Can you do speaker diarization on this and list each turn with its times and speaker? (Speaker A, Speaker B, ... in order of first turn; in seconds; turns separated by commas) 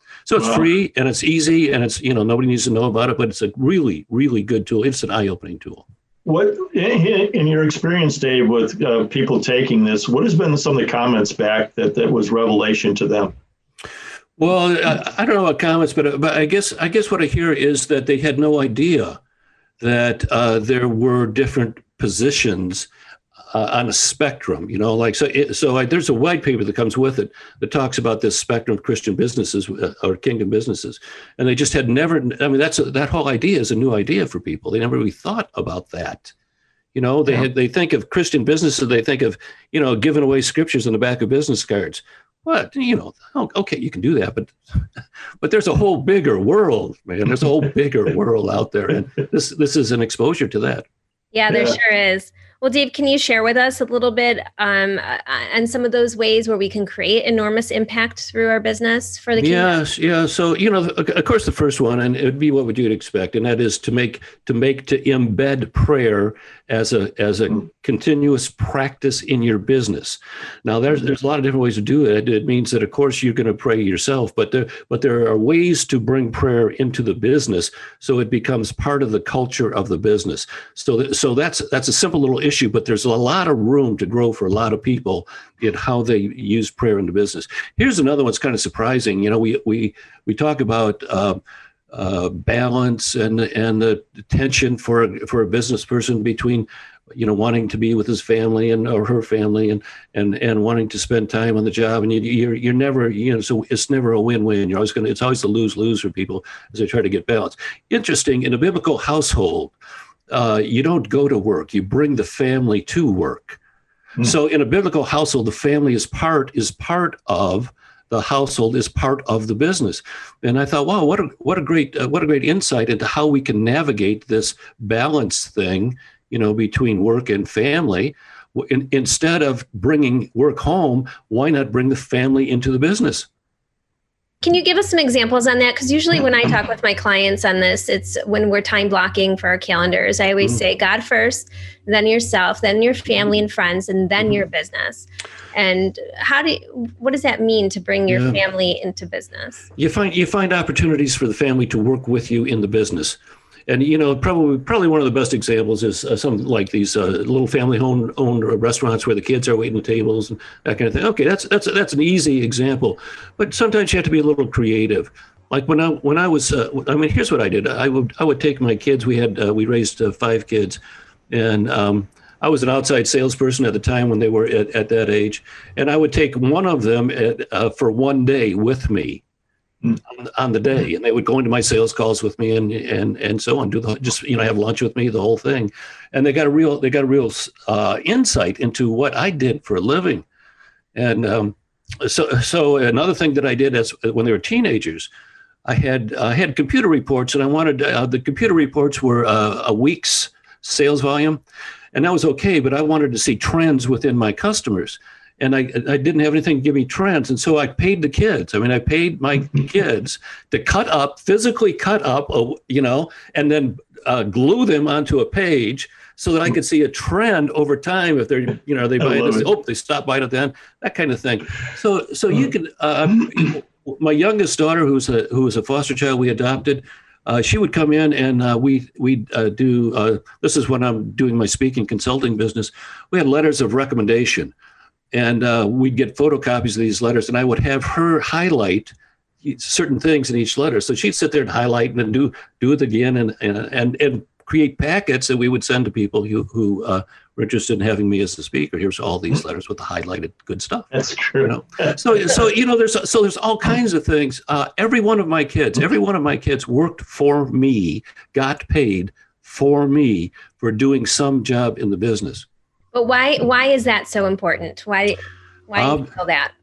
Speaker A: 0.2-5.8, Speaker B: 0.4-0.7, Speaker B: 6.2-13.3, Speaker A: 14.4-19.2, Speaker A: 19.8-22.9, Speaker A: 23.5-36.3, Speaker A: 36.9-44.5, Speaker A: 45.4-50.9, Speaker C: 51.3-59.8, Speaker A: 59.4-91.4, Speaker A: 91.9-109.7, Speaker A: 110.3-113.6, Speaker A: 114.2-133.3, Speaker C: 134.4-149.7, Speaker A: 148.1-148.4, Speaker A: 149.8-170.8, Speaker A: 171.3-179.2, Speaker A: 180.1-190.2, Speaker A: 190.9-195.1, Speaker A: 195.6-201.4, Speaker A: 201.9-234.5, Speaker B: 219.0-219.4, Speaker A: 235.1-262.4, Speaker B: 250.9-251.9, Speaker C: 262.9-266.5, Speaker A: 265.8-266.1